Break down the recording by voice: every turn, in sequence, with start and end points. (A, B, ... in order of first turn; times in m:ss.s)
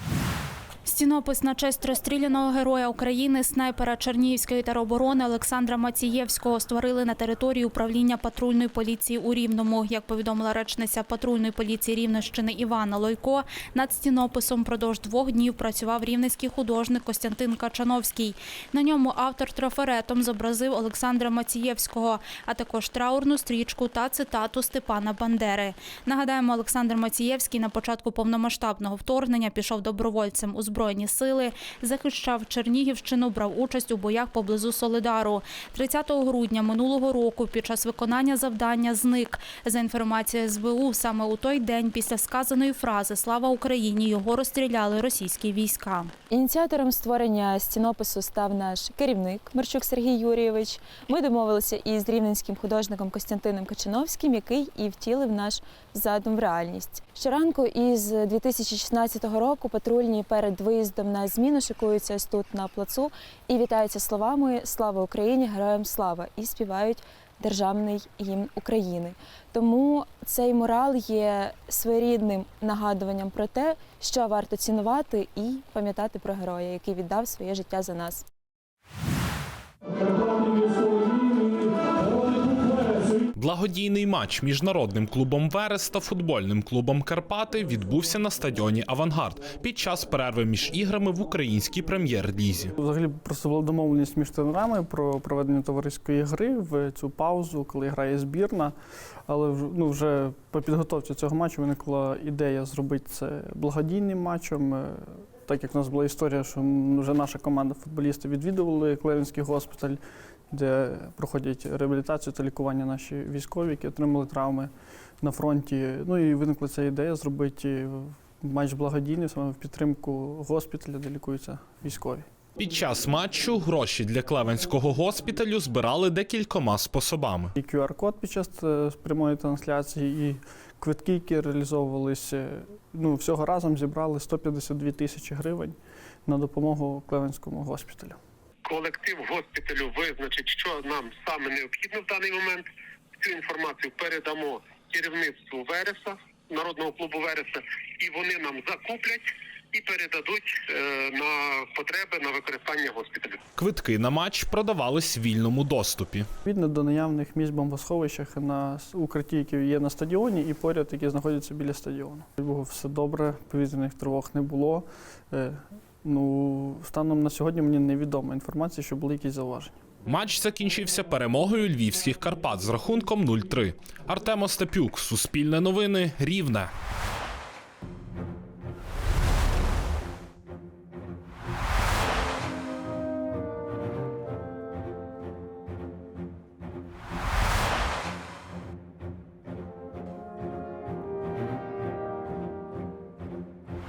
0:00.9-0:46.1 A
0:46.3-1:18.2 B
1:20.3-1:23.2 C
1:23.4-1:32.7 D
1:32.8-1:38.8 C
1:39.3-2:02.2 C
2:02.6-2:07.5 D
2:07.6-2:18.2 C
2:18.6-2:33.4 E
2:33.6-2:36.3 D
2:36.4-2:49.8 C
2:50.1-2:56.7 D